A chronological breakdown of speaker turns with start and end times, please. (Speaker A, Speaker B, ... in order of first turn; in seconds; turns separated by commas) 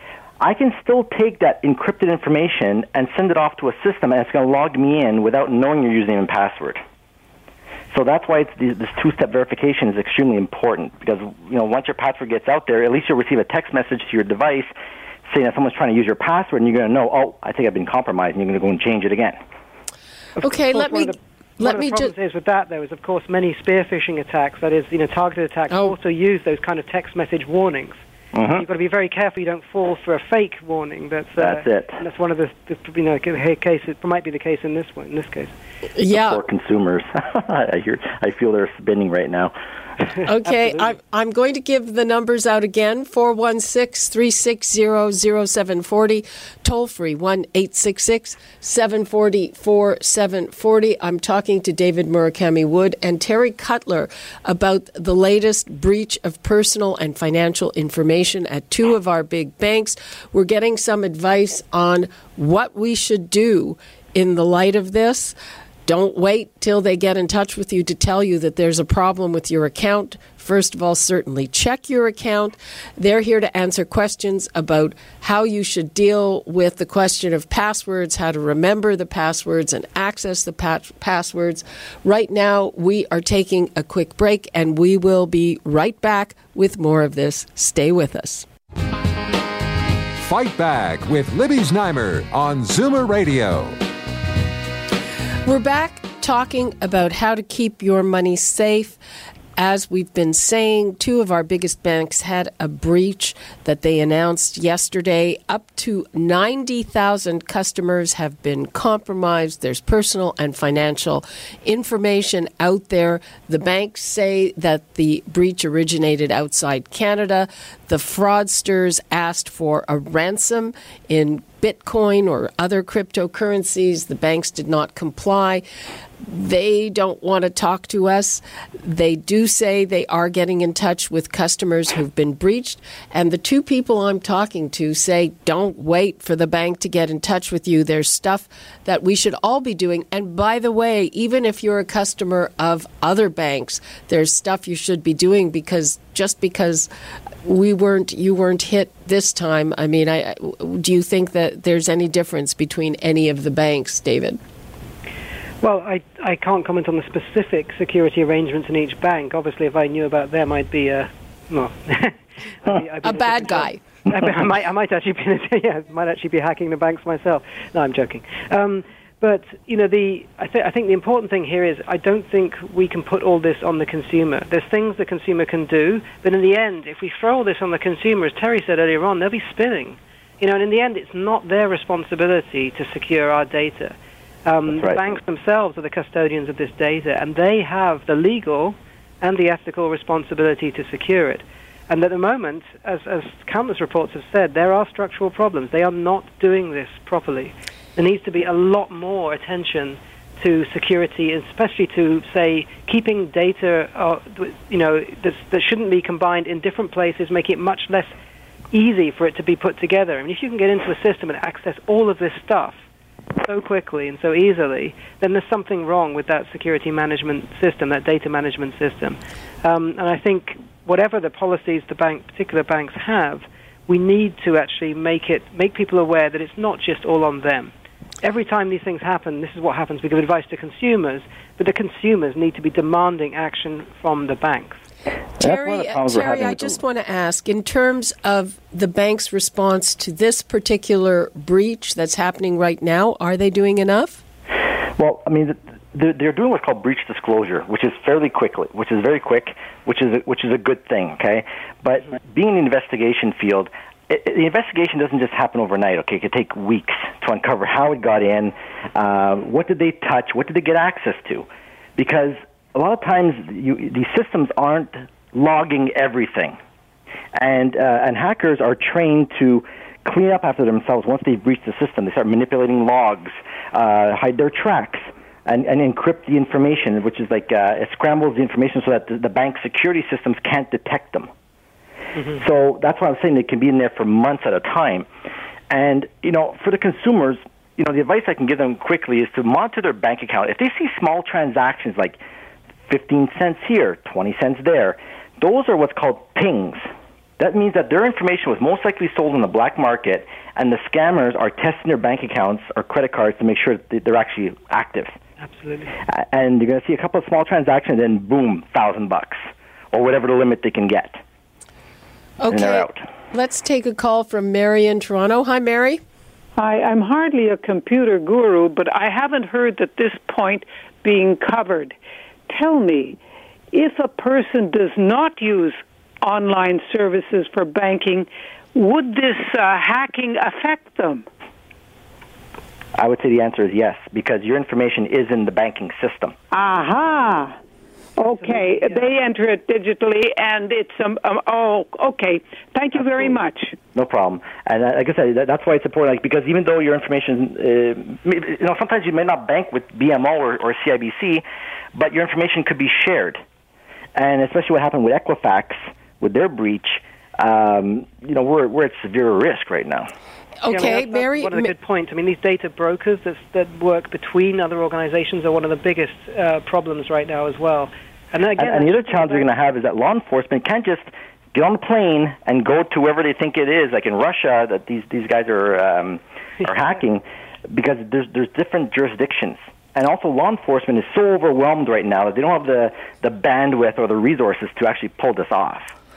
Speaker A: 0.4-6.8, Speaker A: 7.9-14.7, Speaker A: 15.3-19.4, Speaker B: 20.4-28.0, Speaker C: 20.4-22.1, Speaker C: 25.7-25.9, Speaker A: 28.3-28.7, Speaker B: 28.6-35.5, Speaker A: 31.4-32.0, Speaker C: 36.0-36.4, Speaker A: 36.1-39.5, Speaker C: 40.3-88.5, Speaker B: 40.4-40.9, Speaker D: 90.2-93.8, Speaker C: 95.5-99.0, Speaker C: 99.6-125.6, Speaker C: 126.2-146.9, Speaker C: 147.4-154.4, Speaker B: 155.6-208.2, Speaker C: 163.0-163.8, Speaker A: 184.7-185.1, Speaker B: 208.7-212.8, Speaker B: 213.4-234.8, Speaker C: 235.4-244.2, Speaker A: 235.4-236.8, Speaker A: 245.0-266.6, Speaker A: 267.4-281.3, Speaker A: 282.3-285.1, Speaker A: 285.7-292.2, Speaker A: 292.9-296.9, Speaker A: 297.4-305.1, Speaker B: 305.4-305.9, Speaker A: 306.1-309.4, Speaker A: 309.9-311.2, Speaker C: 312.4-316.0, Speaker A: 312.5-313.0, Speaker E: 316.6-322.0, Speaker E: 322.5-323.2, Speaker E: 323.7-331.3, Speaker A: 333.0-336.4, Speaker E: 336.5-337.6, Speaker E: 338.3-343.7, Speaker B: 338.4-339.1, Speaker A: 342.9-343.4, Speaker A: 343.9-353.4, Speaker A: 354.2-360.1, Speaker C: 360.6-361.7, Speaker B: 360.7-369.5, Speaker A: 368.6-385.9